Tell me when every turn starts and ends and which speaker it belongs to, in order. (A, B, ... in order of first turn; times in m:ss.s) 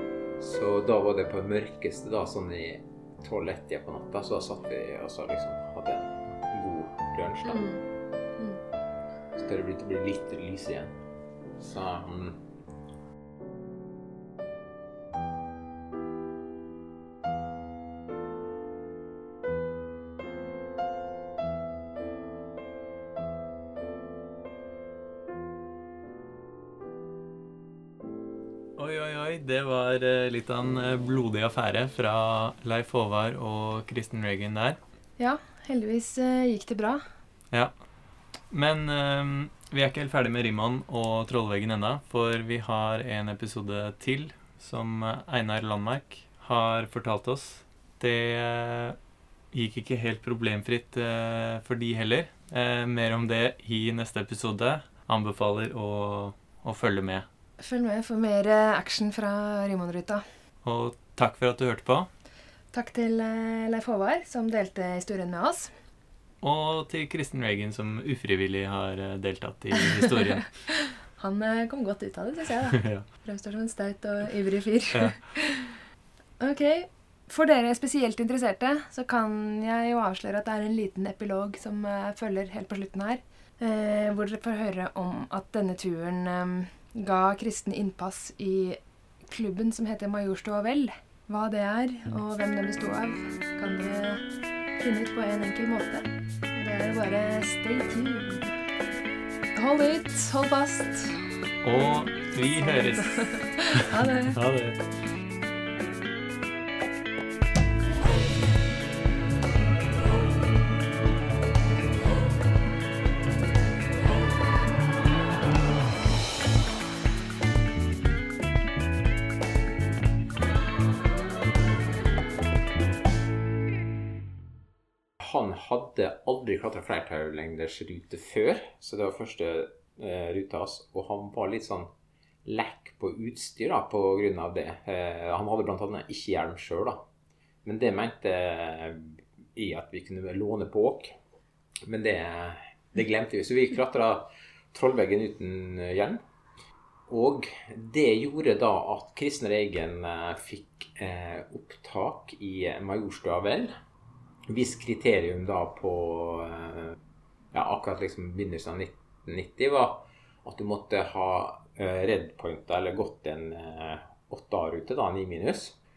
0:00.4-0:07.7 A
0:07.5-0:07.8 B
0:09.4-0:10.9 A
0:11.6-0:12.4 A
0:28.8-0:34.8 C
0:35.2-0:37.0 B
0:37.5-0:37.8 C
0:38.5-0:49.0 C
0:49.5-0:57.3 C
0:57.6-1:00.2 B
1:00.6-1:02.1 C
1:02.7-1:05.7 B
1:06.4-1:10.5 C
1:11.2-1:15.8 B
1:12.7-1:13.0 C
1:14.9-1:15.2 C
1:16.4-1:34.2 B
1:34.8-1:38.6 B
1:39.6-1:41.3 B
1:41.6-1:44.8 C
1:42.6-1:44.4 B
2:05.2-2:11.9 A
2:12.4-2:17.0 A
2:17.6-2:21.2 A
2:21.9-2:26.2 A
2:27.1-2:33.7 A
2:34.5-2:37.0 A
2:37.5-2:45.8 A